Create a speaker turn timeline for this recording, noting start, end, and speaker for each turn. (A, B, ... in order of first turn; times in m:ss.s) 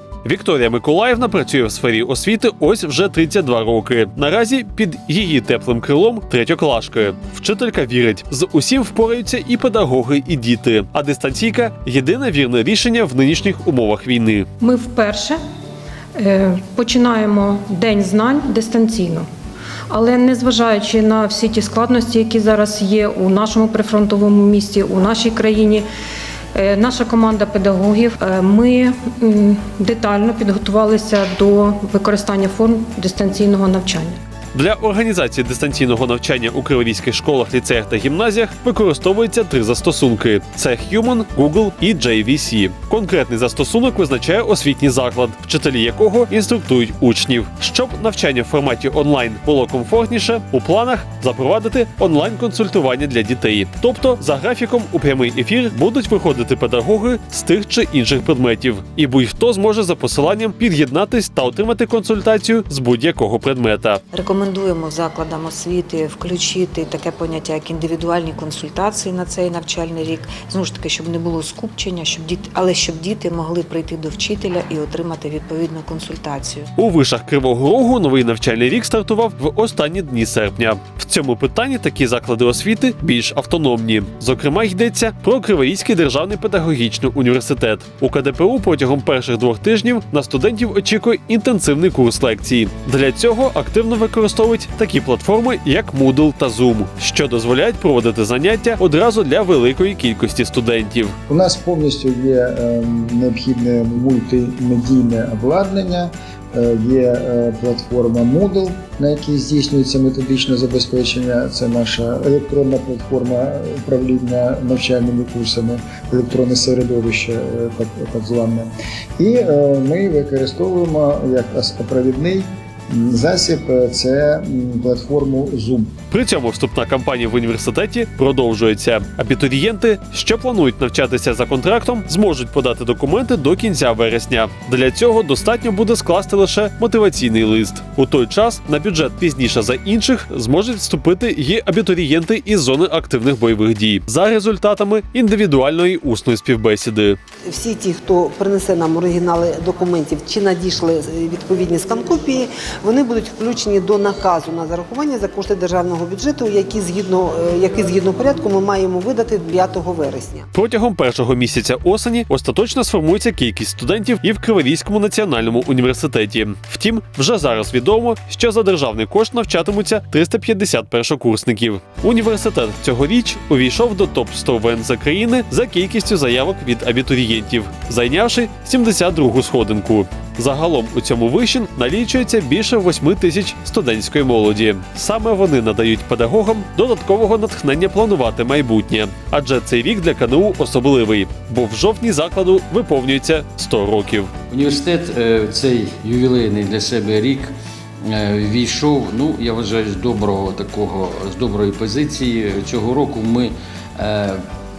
0:00.2-0:14.5 A
0:14.6-0:15.4 B
0:16.2-0:19.2 B
0:19.9-0:25.8 B
0:26.5-0:34.2 B
0:34.5-1:04.0 A
1:04.1-1:16.7 C
1:16.8-1:41.2 A
1:41.3-2:05.9 D
2:06.1-2:27.2 A
2:27.5-2:40.4 E
2:40.5-3:14.3 A
3:14.5-3:17.5 F
3:18.0-3:24.4 F